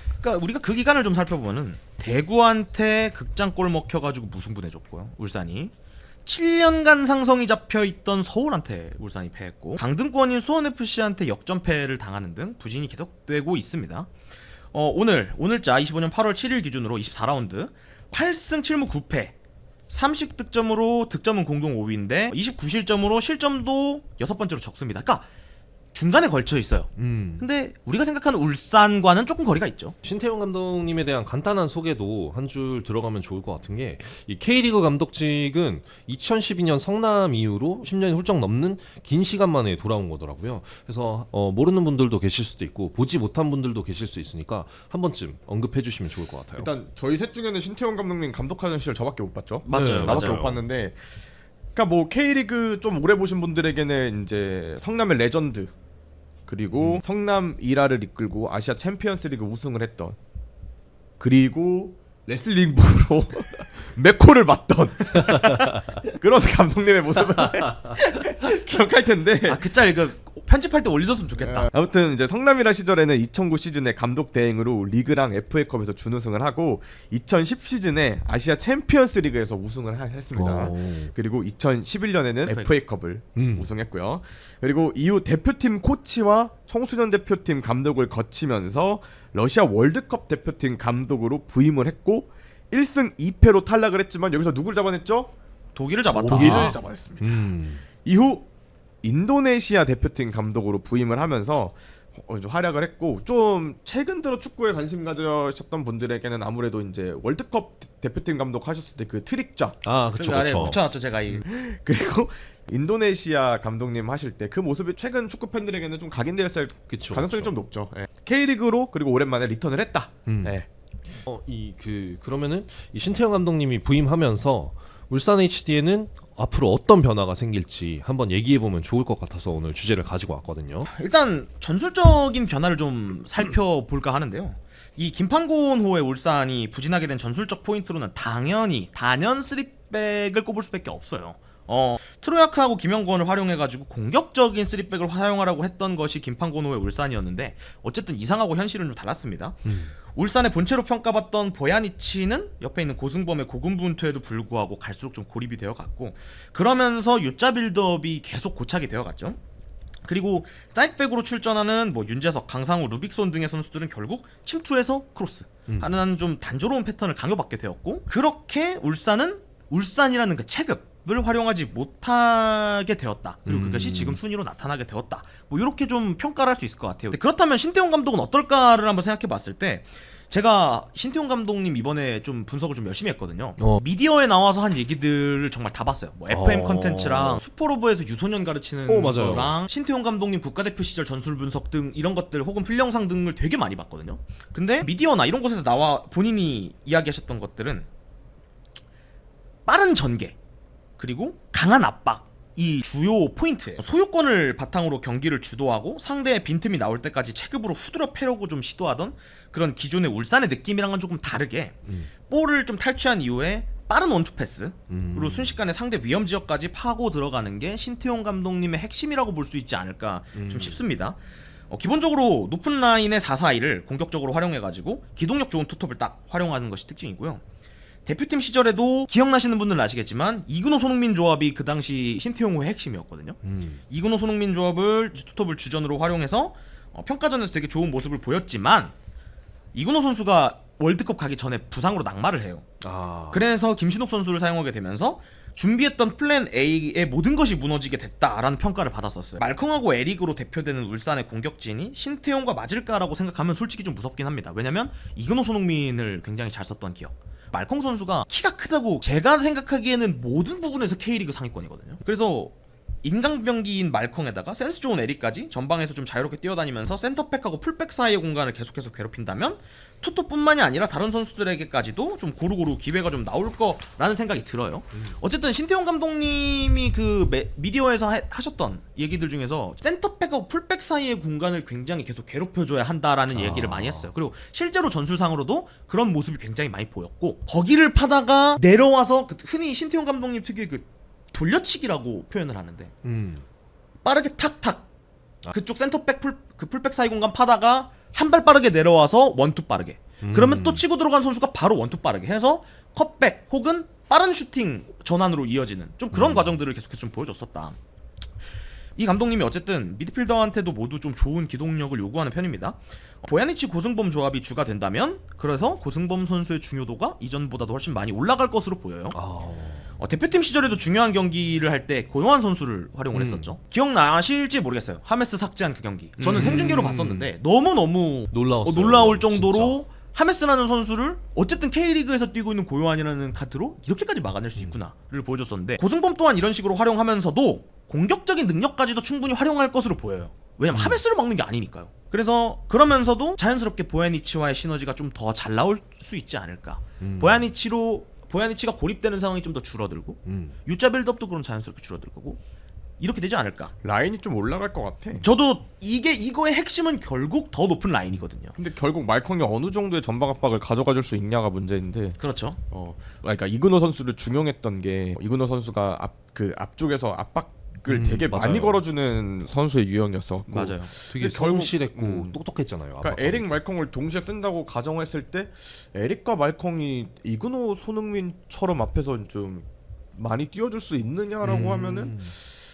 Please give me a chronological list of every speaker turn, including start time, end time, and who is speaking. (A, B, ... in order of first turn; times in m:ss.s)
0:00.2-0:05.7 A
0:06.2-0:14.1 A
0:14.7-0:19.3 A
0:19.9-0:25.2 A
0:25.9-0:30.0 A
0:27.0-0:27.4 B
0:30.0-0:46.7 B
0:46.6-0:51.1 C
0:49.6-0:50.4 A
0:49.7-0:50.6 B
0:51.7-0:55.7 C
0:56.5-1:00.2 C
0:56.7-0:57.0 B
1:01.2-1:09.7 C
1:09.4-1:11.7 A
1:11.4-1:35.3 C
1:20.3-1:21.1 B
1:22.4-1:22.7 A
1:23.4-1:23.7 B
1:35.7-1:36.8 A
1:36.1-1:37.5 C
1:36.3-1:37.8 B
1:38.0-1:38.5 C
1:39.0-1:49.8 C
1:49.8-1:50.8 B
1:50.2-1:51.4 A
1:51.4-2:00.7 C
1:56.9-1:57.5 B
2:00.3-2:00.6 B
2:01.2-2:10.9 B
2:10.8-2:39.4 A
2:29.6-2:29.9 B
2:40.0-3:17.8 A
2:45.7-2:46.0 B
2:53.4-2:54.2 B
3:03.6-3:03.8 B
3:06.3-3:07.4 B
3:08.9-3:09.6 B
3:19.6-3:20.4 A
3:21.0-3:41.2 A
3:31.8-3:32.1 B
3:34.9-3:35.6 B
3:40.3-3:40.8 B
3:41.7-3:47.4 A
3:48.0-3:58.9 A
3:53.4-3:53.8 B
3:59.7-4:02.6 A
4:02.8-4:03.4 B
4:03.3-4:52.9 A
4:43.3-4:44.1 B
4:53.0-4:53.4 B
4:54.0-4:54.8 A
4:55.5-5:07.8 A
5:00.2-5:00.8 B
5:06.1-5:06.5 B
5:09.0-5:19.2 A
5:19.1-5:19.9 B
5:20.0-5:52.4 A
5:23.1-5:23.5 B
5:26.2-5:27.3 B
5:28.3-5:29.8 B
5:40.7-5:41.0 B
5:47.0-5:47.5 B
5:50.2-5:50.6 B
5:53.0-5:53.7 A
5:53.8-5:55.2 C
5:55.1-5:58.5 A
5:58.5-6:02.2 C
6:02.2-6:02.6 A
6:02.7-6:12.4 C
6:07.8-6:08.8 B
6:10.5-6:10.9 A
6:11.0-6:13.6 B
6:13.0-6:22.2 C
6:21.4-6:22.3 B